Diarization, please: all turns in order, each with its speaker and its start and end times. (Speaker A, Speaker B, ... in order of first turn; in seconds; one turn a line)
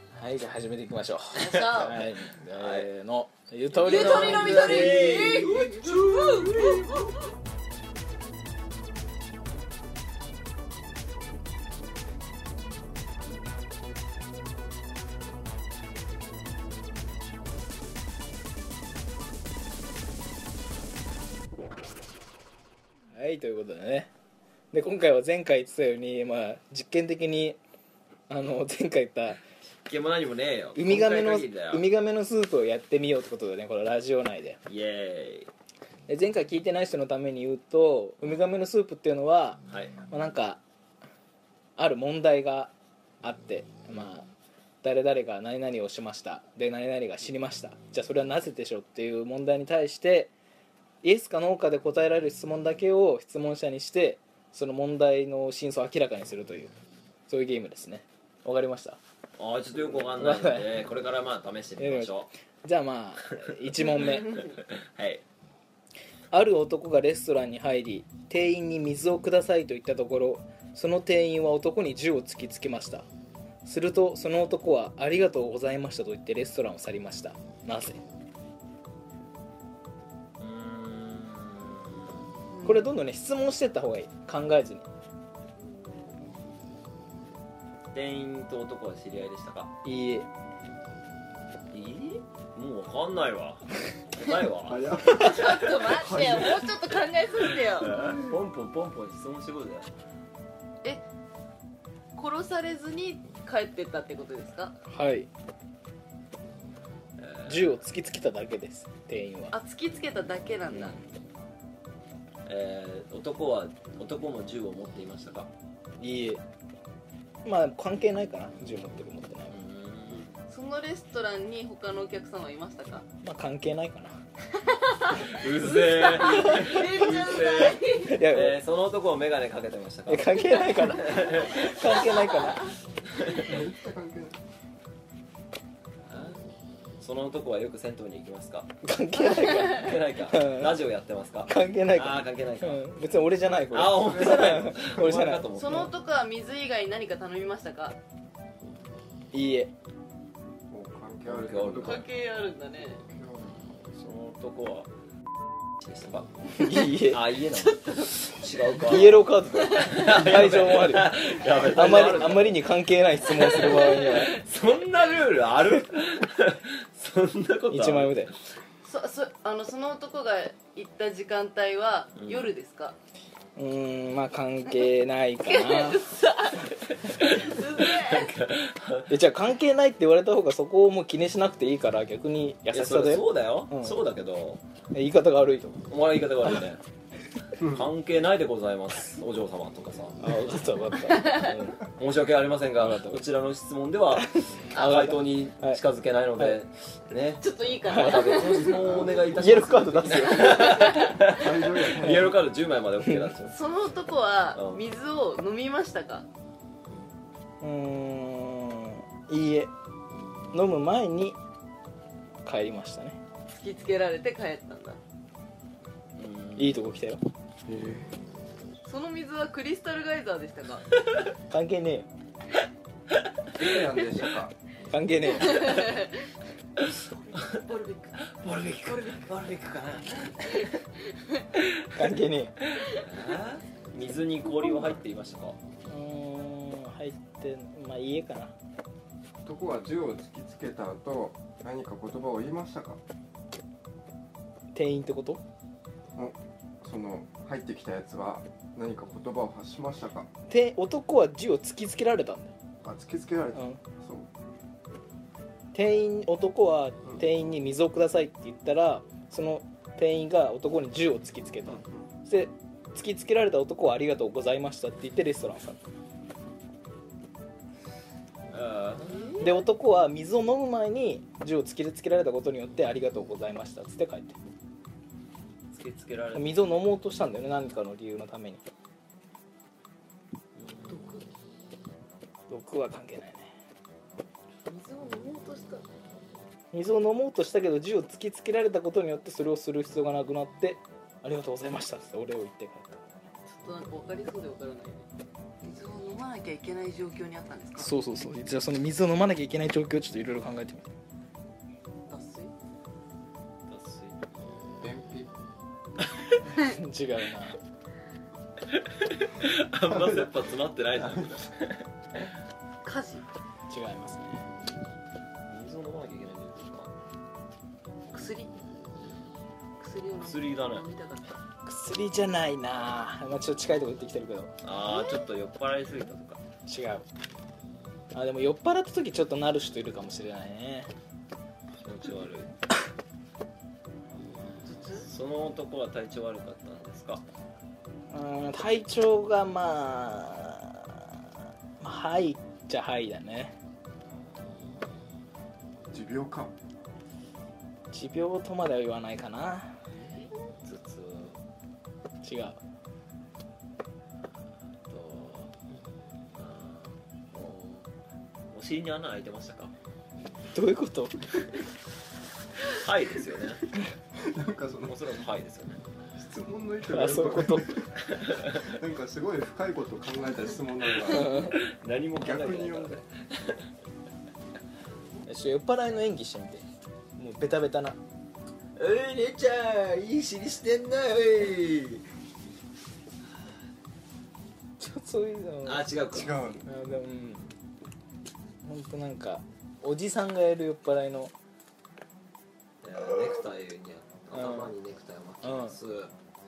Speaker A: 0.1-5.5
Speaker B: 1.4-2.0
Speaker C: 1.5-2.9
Speaker C: 3.7-7.1
Speaker B: 3.8-7.1
Speaker A: 23.1-24.1
Speaker A: 24.7-27.6
Speaker A: 28.3-29.4
Speaker C: 29.8-31.9
Speaker A: 30.8-34.6
Speaker C: 34.7-35.5
Speaker A: 36.1-40.6
Speaker C: 39.7-40.0
Speaker A: 41.8-44.3
Speaker A: 44.8-50.3
Speaker A: 51.0-59.0
Speaker C: 59.4-62.3
Speaker A: 60.2-60.7
Speaker A: 61.8-64.5
Speaker C: 63.3-65.2
Speaker A: 66.3-73.0
Speaker A: 73.7-78.0
Speaker C: 80.4-82.3
Speaker B: 82.5-82.8
Speaker A: 82.6-84.9
Speaker B: 85.6-86.2
Speaker C: 87.9-89.7
Speaker A: 89.8-90.3
Speaker C: 91.7-96.5
Speaker D: 94.7-96.7
Speaker B: 95.1-97.9
Speaker C: 97.7-99.9
Speaker B: 102.2-104.8
Speaker A: 104.9-105.3
Speaker C: 107.2-107.8
Speaker A: 107.5-109.6
Speaker B: 109.5-111.0
Speaker A: 110.7-111.0
Speaker C: 112.5-115.5
Speaker A: 116.0-116.4
Speaker A: 117.4-119.6
Speaker C: 119.5-120.3
Speaker B: 120.5-123.1
Speaker A: 123.2-124.2
Speaker B: 124.6-128.2
Speaker C: 125.1-132.6
Speaker A: 128.0-128.6
Speaker A: 130.1-132.7
Speaker C: 133.1-133.7
Speaker D: 133.4-134.4
Speaker C: 136.1-136.4
Speaker C: 137.0-138.7
Speaker A: 138.8-140.8
Speaker B: 139.3-139.7
Speaker C: 139.7-145.9
Speaker A: 141.5-145.9
Speaker D: 144.1-144.5
Speaker B: 145.5-148.0
Speaker A: 149.3-149.7
Speaker D: 150.7-152.1
Speaker C: 151.2-152.1
Speaker B: 151.8-153.0
Speaker D: 152.9-153.6
Speaker C: 153.4-154.9
Speaker C: 155.8-162.6
Speaker A: 156.6-157.2
Speaker B: 157.5-160.2
Speaker A: 158.8-164.4
Speaker C: 163.3-168.6
Speaker B: 163.8-164.1
Speaker A: 167.7-168.3
Speaker B: 168.8-173.0
Speaker C: 172.2-172.6
Speaker A: 173.6-176.0
Speaker B: 175.4-178.3
Speaker C: 177.0-179.1
Speaker A: 179.1-184.0
Speaker C: 182.7-184.6
Speaker A: 184.9-185.9
Speaker C: 185.9-186.8
Speaker C: 187.6-190.7
Speaker D: 187.6-187.8
Speaker A: 190.2-191.8
Speaker B: 191.1-191.6
Speaker C: 191.9-203.6
Speaker A: 192.8-193.3
Speaker A: 194.2-195.8
Speaker B: 197.4-199.3
Speaker A: 197.9-198.2
Speaker D: 198.9-199.6
Speaker A: 199.3-201.1
Speaker B: 200.0-201.4
Speaker D: 201.2-202.4
Speaker A: 203.0-203.3
Speaker B: 203.5-206.3
Speaker C: 204.5-204.8
Speaker A: 207.6-209.7
Speaker A: 210.5-211.4
Speaker A: 212.4-213.2
Speaker B: 213.6-215.0
Speaker C: 216.2-217.0
Speaker A: 216.6-217.2
Speaker D: 217.7-218.1
Speaker B: 218.8-220.9
Speaker A: 221.5-222.1
Speaker D: 223.6-225.3
Speaker A: 224.9-225.7
Speaker B: 225.3-226.1
Speaker C: 225.5-225.8
Speaker B: 226.8-228.2
Speaker C: 227.5-230.8
Speaker B: 228.8-229.3
Speaker C: 231.6-232.1
Speaker A: 231.9-232.6
Speaker C: 232.7-235.6
Speaker A: 235.8-238.5
Speaker D: 239.4-243.0
Speaker A: 244.7-245.4
Speaker D: 246.2-250.3
Speaker A: 250.5-252.5
Speaker D: 252.8-254.3
Speaker A: 253.6-253.8
Speaker A: 255.7-265.9
Speaker D: 261.7-262.1
Speaker C: 268.5-269.6
Speaker A: 269.4-274.4
Speaker C: 275.7-276.6
Speaker A: 276.3-278.6
Speaker C: 280.6-281.3
Speaker A: 282.5-283.5
Speaker B: 284.6-285.9
Speaker A: 286.7-293.0
Speaker B: 293.5-295.1
Speaker B: 295.6-297.9
Speaker A: 297.8-300.9
Speaker B: 302.1-302.5
Speaker C: 303.7-304.5
Speaker D: 304.8-305.3
Speaker A: 306.5-307.6
Speaker C: 308.7-312.3
Speaker B: 312.8-313.2
Speaker A: 313.7-314.5
Speaker C: 315.5-316.9
Speaker B: 318.1-318.6
Speaker B: 319.8-321.4
Speaker C: 320.2-320.9
Speaker A: 321.6-324.5
Speaker C: 324.6-326.4
Speaker A: 326.7-327.1
Speaker A: 328.1-330.9
Speaker C: 331.8-332.5
Speaker B: 334.6-335.1
Speaker C: 334.9-337.2
Speaker A: 338.1-341.2
Speaker A: 341.8-343.5
Speaker D: 345.9-346.5
Speaker A: 347.9-349.8
Speaker C: 350.0-351.4
Speaker A: 352.2-352.6
Speaker C: 354.9-355.6
Speaker C: 356.4-357.9
Speaker C: 358.5-359.7
Speaker A: 360.5-361.2
Speaker C: 362.7-363.7
Speaker D: 364.1-365.0
Speaker C: 364.8-365.8
Speaker D: 366.1-371.5
Speaker A: 366.9-367.9
Speaker C: 368.1-368.8
Speaker A: 371.1-371.6
Speaker C: 371.2-373.7
Speaker D: 372.2-373.0
Speaker A: 375.3-376.6
Speaker A: 377.2-378.0
Speaker C: 378.8-382.1
Speaker A: 384.8-385.9
Speaker C: 385.6-386.5
Speaker D: 386.1-386.7
Speaker A: 386.6-387.5
Speaker A: 388.6-391.3
Speaker C: 392.8-396.1
Speaker A: 394.3-394.7
Speaker A: 395.4-395.8